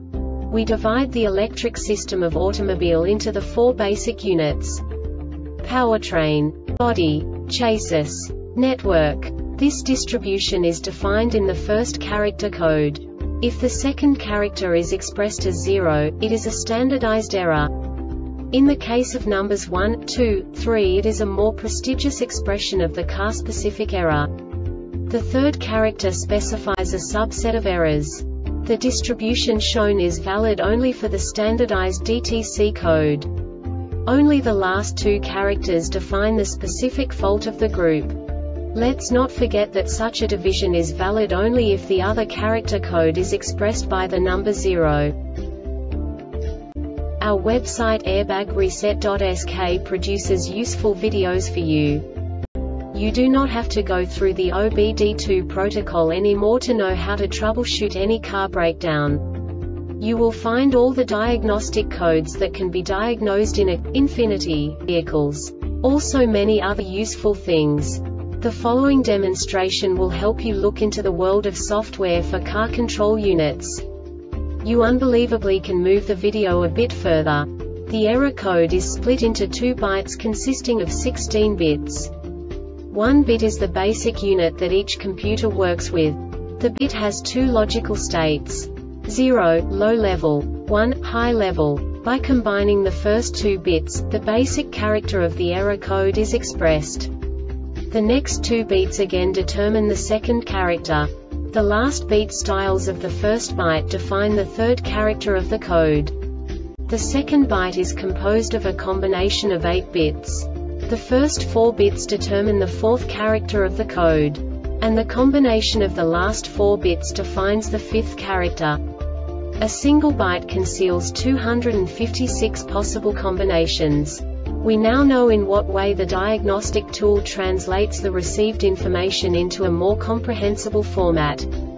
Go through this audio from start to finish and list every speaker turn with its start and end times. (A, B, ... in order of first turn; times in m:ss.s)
0:00.5-0:04.8 A
0:05.6-0:17.9 A
0:18.5-0:24.4 A
0:24.9-0:33.3 A
0:34.0-0:45.2 A
0:47.2-0:52.1 A
0:52.9-1:13.9 A
1:14.6-1:22.1 A
1:22.9-1:37.1 A
1:37.9-1:46.2 A
1:46.9-1:58.8 A
1:59.6-2:11.5 A